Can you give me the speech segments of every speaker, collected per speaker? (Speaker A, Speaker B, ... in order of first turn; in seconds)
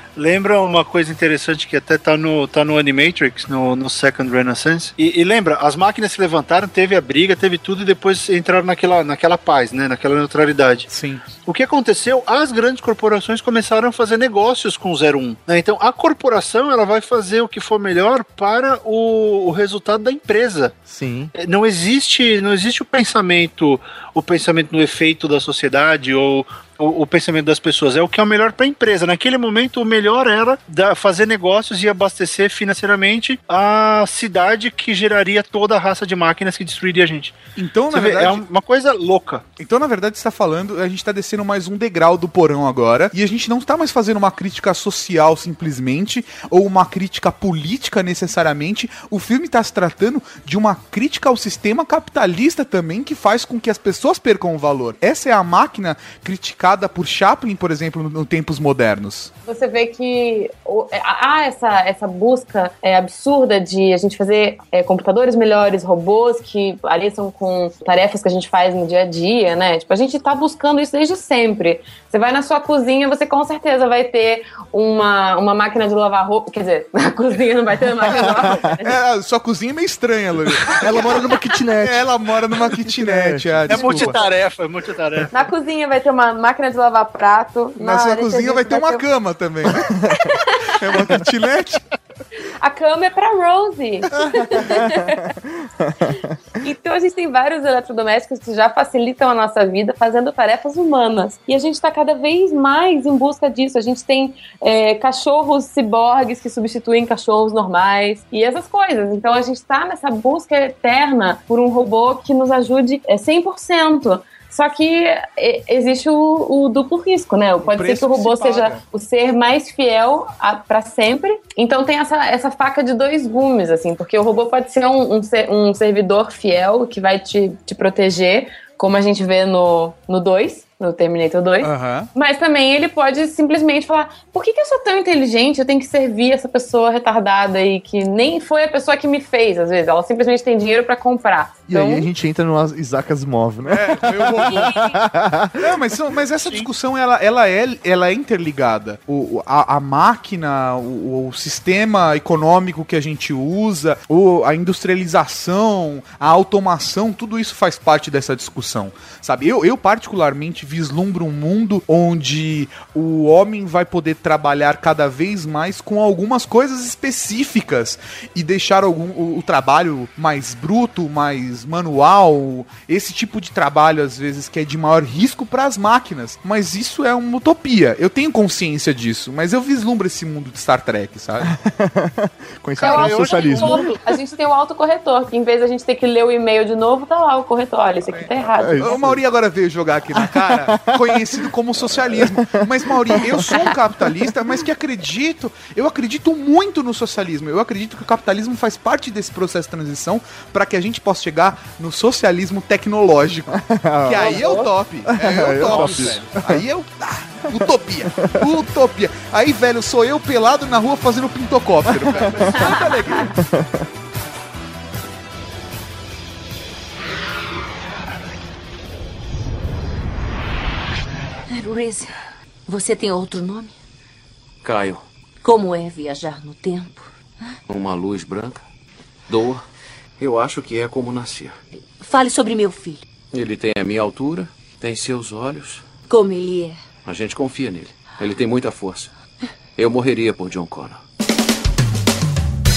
Speaker A: 0.2-10.9, 11.4-20.8, 21.4-37.4, 37.9-39.4, 83.7-85.3, 146.4-146.7, 182.8-184.0, 205.7-206.0
Speaker B: 10.9-11.2, 37.6-38.4, 39.6-59.3, 78.8-84.2, 87.8-90.0, 90.6-91.8, 117.6-118.8, 131.6-132.1, 143.7-144.8, 145.6-181.5, 188.1-213.4
Speaker C: 20.9-21.3, 80.7-83.8, 89.7-90.2, 94.2-95.0, 95.6-96.3, 141.7-145.8, 181.4-183.9, 188.6-189.2, 190.1-194.2, 203.5-206.6, 207.5-208.5, 211.9-212.8, 213.3-213.9
Speaker D: 59.5-79.0, 85.3-89.0, 90.3-90.8, 92.6-95.3, 96.6-142.1, 144.5-145.0, 182.8-189.0, 204.2-204.7
Speaker E: 221.5-222.1, 222.7-223.7, 225.4-227.1, 232.0-233.0, 236.1-236.8
Speaker F: 224.6-225.1, 227.7-228.6, 229.3-229.6, 230.2-231.6, 233.3-235.8, 237.1-239.1, 239.8-241.0